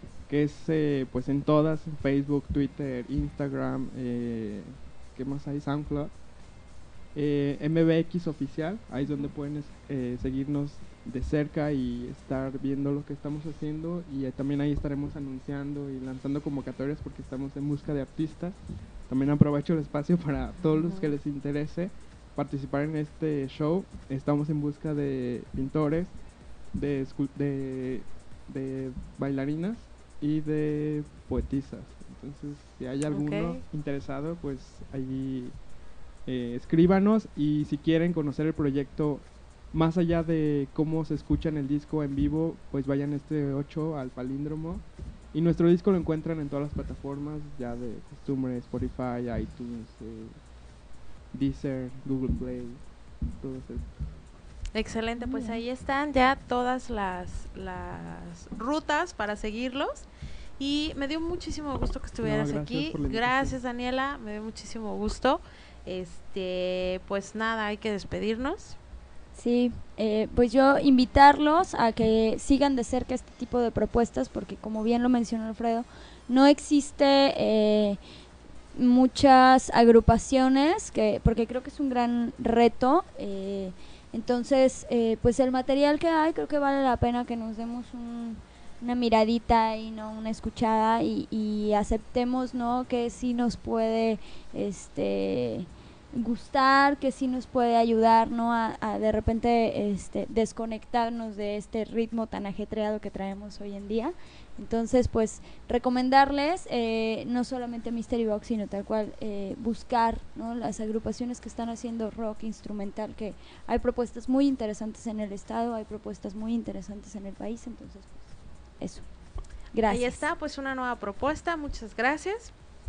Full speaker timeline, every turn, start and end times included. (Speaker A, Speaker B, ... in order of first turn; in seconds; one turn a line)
Speaker A: 0.3-6.1
Speaker A: 7.1-18.6
Speaker A: 19.1-26.1
Speaker B: 20.7-21.1
Speaker A: 26.7-35.5
Speaker B: 33.1-33.6
Speaker A: 36.2-50.4
Speaker A: 51.3-52.8
Speaker A: 53.4-53.9
Speaker B: 54.7-60.0
Speaker C: 55.2-55.6
Speaker B: 60.6-68.8
Speaker A: 62.2-63.6
Speaker C: 69.3-78.0
Speaker C: 78.7-119.0
Speaker C: 119.7-120.2
Speaker B: 119.8-122.5